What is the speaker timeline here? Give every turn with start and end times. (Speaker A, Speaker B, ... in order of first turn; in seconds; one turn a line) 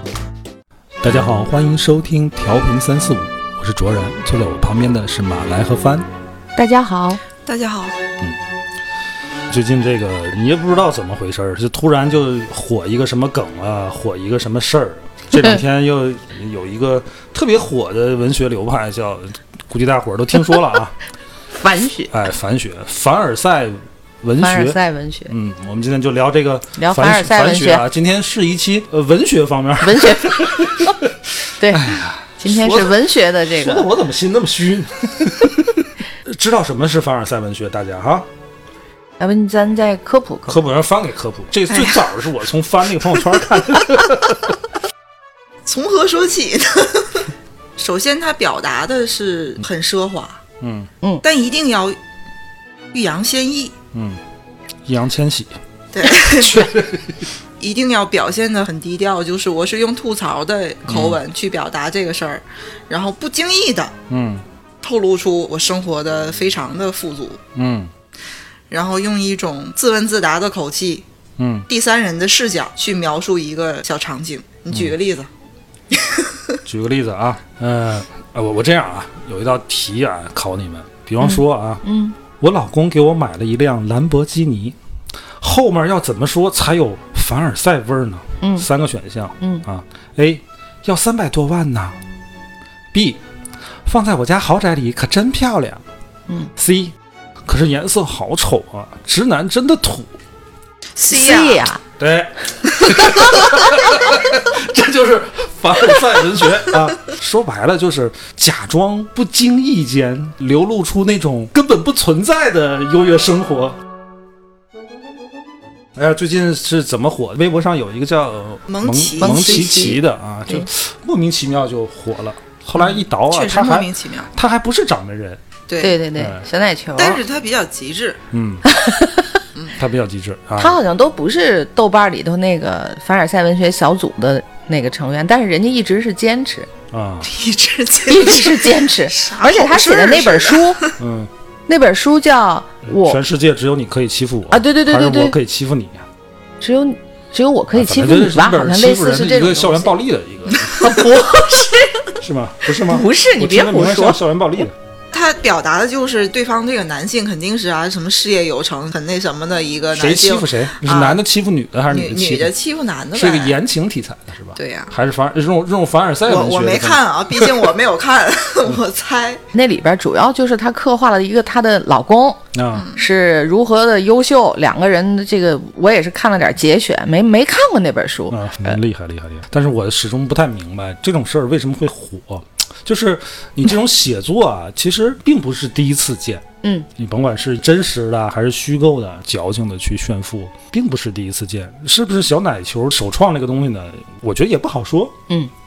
Speaker A: 1.0-6.1
Speaker B: 6.5-7.2
Speaker C: 7.4-8.0
Speaker A: 9.5-20.9
Speaker B: 21.6-22.1
Speaker A: 22.1-24.8
Speaker B: 24.4-25.3
Speaker A: 25.3-38.3
Speaker B: 26.8-27.8
Speaker B: 29.8-30.9
Speaker B: 31.6-33.9
Speaker B: 39.2-40.6
Speaker A: 40.5-44.5
Speaker C: 41.7-42.1
Speaker C: 45.6-50.4
Speaker A: 50.6-50.9
Speaker C: 51.2-52.0
Speaker C: 52.9-53.7
Speaker A: 53.9-54.2
Speaker A: 54.8-57.3
Speaker C: 55.9-56.7
Speaker C: 57.6-64.0
Speaker A: 60.9-61.2
Speaker A: 64.1-64.4
Speaker C: 64.8-67.4
Speaker A: 67.5-67.9
Speaker C: 68.7-71.0
Speaker A: 71.4-71.7
Speaker C: 71.7-75.3
Speaker C: 75.9-76.2
Speaker A: 76.6-81.8
Speaker B: 81.2-82.2
Speaker A: 82.4-84.8
Speaker A: 85.4-92.0
Speaker B: 88.4-88.7
Speaker B: 89.4-89.6
Speaker A: 92.9-93.2
Speaker A: 93.8-95.8
Speaker A: 96.5-96.9
Speaker A: 97.5-100.1
Speaker C: 101.0-101.7
Speaker B: 101.1-101.8
Speaker A: 102.0-113.8
Speaker A: 115.9-125.4
Speaker C: 118.7-120.0
Speaker B: 119.2-120.7
Speaker C: 123.2-124.3
Speaker C: 125.7-126.0
Speaker B: 125.8-127.2
Speaker A: 126.1-126.4
Speaker C: 127.0-128.2
Speaker A: 128.3-128.6
Speaker B: 128.6-129.4
Speaker A: 129.7-130.8
Speaker B: 130.6-136.7
Speaker A: 136.9-137.3
Speaker C: 137.2-141.0
Speaker B: 138.1-140.8
Speaker A: 141.0-141.3
Speaker B: 141.7-143.2
Speaker A: 142.9-146.1
Speaker B: 144.5-145.4
Speaker B: 146.6-149.9
Speaker A: 147.7-151.4
Speaker B: 150.8-152.1
Speaker A: 152.2-154.7
Speaker B: 152.7-154.2
Speaker C: 155.1-161.2
Speaker A: 159.9-162.5
Speaker C: 161.9-163.6
Speaker A: 163.1-167.6
Speaker C: 164.6-164.9
Speaker C: 166.3-169.4
Speaker B: 169.5-172.4
Speaker A: 172.5-172.9
Speaker C: 172.7-173.0
Speaker B: 172.9-178.8
Speaker A: 178.3-195.2
Speaker B: 186.6-186.9